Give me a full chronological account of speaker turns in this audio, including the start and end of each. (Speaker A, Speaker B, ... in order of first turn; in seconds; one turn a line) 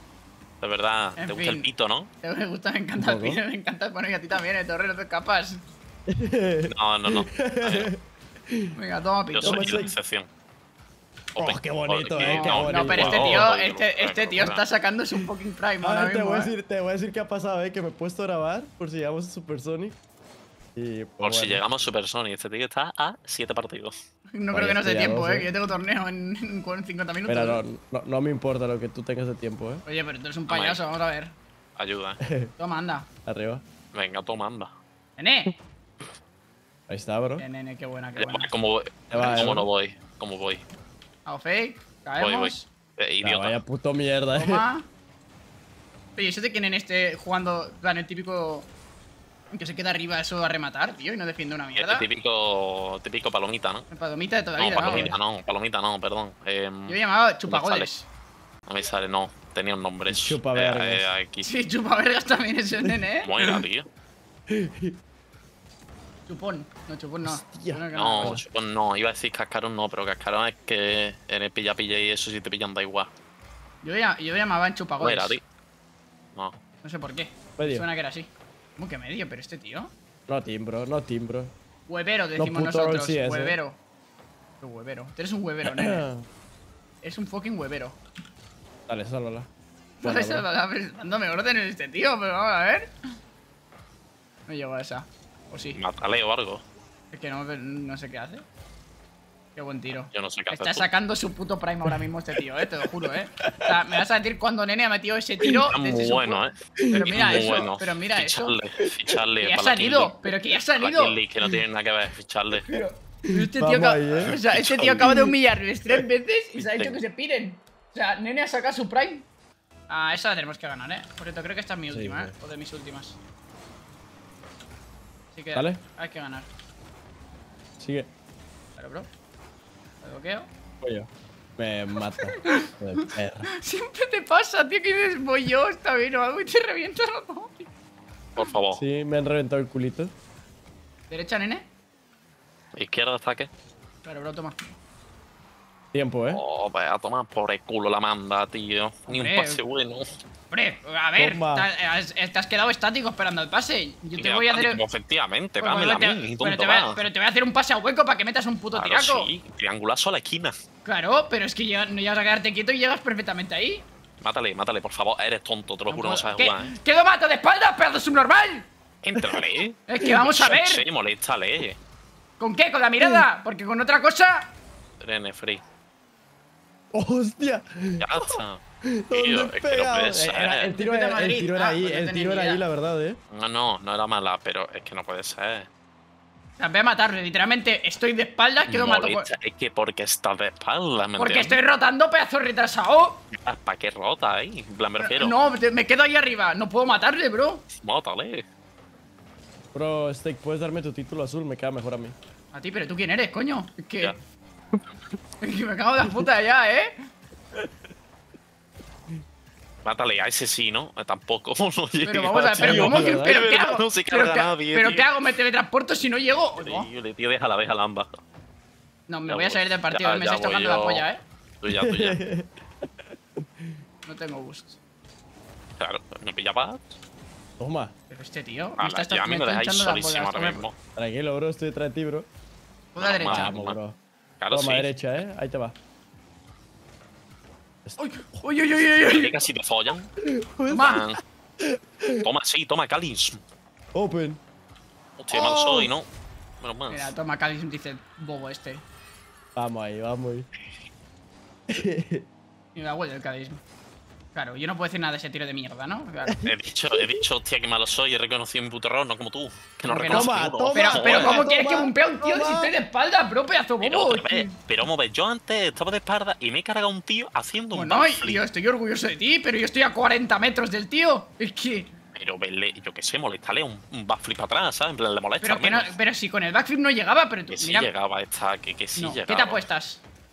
Speaker A: 0.6-2.1
Speaker B: 1.2-1.7
Speaker B: 2.2-5.6
Speaker C: 3.0-3.4
Speaker C: 6.1-8.7
Speaker A: 6.7-7.9
Speaker B: 8.8-9.9
Speaker A: 9.3-10.3
Speaker C: 9.4-9.9
Speaker A: 11.3-14.7
Speaker C: 11.4-13.5
Speaker B: 12.2-16.5
Speaker C: 15.8-20.0
Speaker C: 20.8-21.6
Speaker A: 21.2-23.9
Speaker B: 24.4-27.6
Speaker C: 24.5-25.5
Speaker C: 27.3-29.8
Speaker B: 29.9-31.4
Speaker A: 30.5-30.8
Speaker A: 31.8-32.2
Speaker C: 32.2-32.5
Speaker B: 32.6-33.1
Speaker C: 33.2-33.6
Speaker A: 33.9-34.7
Speaker B: 35.2-35.6
Speaker C: 36.9-37.5
Speaker B: 37.4-38.5
Speaker A: 38.2-40.6
Speaker C: 39.1-39.7
Speaker B: 41.3-42.7
Speaker A: 42.2-43.6
Speaker C: 43.2-44.6
Speaker B: 44.3-44.9
Speaker B: 46.2-48.7
Speaker B: 49.5-52.1
Speaker A: 51.8-53.9
Speaker B: 53.9-55.2
Speaker A: 54.6-57.9
Speaker C: 54.8-55.2
Speaker B: 56.9-58.1
Speaker A: 58.7-61.5
Speaker C: 60.1-61.1
Speaker B: 61.4-63.4
Speaker A: 63.2-63.9
Speaker C: 64.5-65.0
Speaker B: 66.3-68.4
Speaker C: 67.2-68.4
Speaker A: 67.9-73.1
Speaker B: 73.8-75.4
Speaker A: 75.0-75.4
Speaker B: 76.8-79.9
Speaker C: 77.6-77.9
Speaker C: 80.3-81.5
Speaker B: 81.9-83.8
Speaker C: 82.4-83.6
Speaker B: 84.6-86.0
Speaker C: 85.7-86.3
Speaker B: 87.0-88.0
Speaker C: 88.9-89.5
Speaker C: 90.0-90.5
Speaker B: 90.0-92.9
Speaker B: 94.5-95.8
Speaker A: 95.7-96.6
Speaker B: 97.1-98.5
Speaker B: 99.5-108.5
Speaker A: 100.1-100.9
Speaker C: 103.0-103.8
Speaker C: 105.4-105.7
Speaker A: 105.7-110.1
Speaker C: 106.8-107.5
Speaker B: 109.4-111.2
Speaker A: 110.8-112.7
Speaker B: 112.7-119.3
Speaker C: 112.7-115.3
Speaker A: 114.2-115.0
Speaker B: 119.9-123.2
Speaker C: 121.9-122.3
Speaker B: 125.3-126.5
Speaker C: 125.5-125.8
Speaker C: 127.8-128.1
Speaker B: 128.8-129.1
Speaker B: 130.0-130.5
Speaker C: 130.8-133.5
Speaker B: 132.2-137.7
Speaker A: 138.4-138.8
Speaker C: 138.8-140.1
Speaker B: 141.1-141.7
Speaker A: 142.8-143.5
Speaker B: 144.1-144.6
Speaker C: 145.9-146.4
Speaker A: 146.3-150.0
Speaker B: 149.1-149.6
Speaker B: 150.5-154.8
Speaker C: 151.2-151.7
Speaker A: 154.2-157.1
Speaker B: 155.6-159.3
Speaker A: 158.7-160.5
Speaker B: 160.8-163.8
Speaker A: 164.2-166.8
Speaker B: 165.9-168.7
Speaker A: 169.0-171.8
Speaker C: 169.2-169.5
Speaker B: 169.9-170.8
Speaker B: 172.4-174.5
Speaker C: 173.0-173.3
Speaker A: 175.0-175.6
Speaker C: 176.9-183.2
Speaker A: 178.0-178.6
Speaker A: 179.1-180.7
Speaker B: 180.8-182.6
Speaker A: 183.3-185.7
Speaker B: 186.6-189.3
Speaker A: 188.7-191.6
Speaker B: 191.2-193.2
Speaker A: 193.3-195.4
Speaker B: 195.0-197.7
Speaker A: 197.8-198.4
Speaker C: 199.7-202.2
Speaker B: 202.5-204.2
Speaker B: 205.4-206.9
Speaker A: 209.8-215.1
Speaker B: 212.1-216.9
Speaker C: 212.6-213.4
Speaker A: 216.6-218.2
Speaker B: 219.1-221.2
Speaker A: 219.3-221.1
Speaker A: 221.6-222.2
Speaker C: 221.7-223.8
Speaker B: 224.1-224.8
Speaker A: 225.8-226.9
Speaker C: 227.6-227.9
Speaker B: 228.1-230.7
Speaker A: 228.8-230.8
Speaker C: 231.0-232.3
Speaker B: 232.9-233.6
Speaker A: 232.9-233.8
Speaker C: 233.2-234.0
Speaker A: 234.4-234.9
Speaker C: 234.5-235.8
Speaker B: 238.0-239.4
Speaker A: 239.0-240.1
Speaker C: 240.2-241.1
Speaker B: 240.7-241.0
Speaker A: 240.8-241.2
Speaker C: 241.6-242.3
Speaker A: 242.2-243.4
Speaker C: 243.9-244.4
Speaker A: 245.2-246.1
Speaker C: 245.3-245.9
Speaker A: 246.6-247.1
Speaker B: 246.9-248.8
Speaker C: 249.6-250.5
Speaker C: 251.7-252.3
Speaker B: 252.8-253.6
Speaker B: 254.3-256.4
Speaker C: 256.3-257.2
Speaker A: 256.5-261.4
Speaker B: 259.9-264.6
Speaker C: 260.1-262.7
Speaker A: 263.8-268.4
Speaker B: 267.7-271.9
Speaker A: 272.1-276.0
Speaker B: 275.4-277.9
Speaker A: 277.5-279.7
Speaker B: 279.0-280.0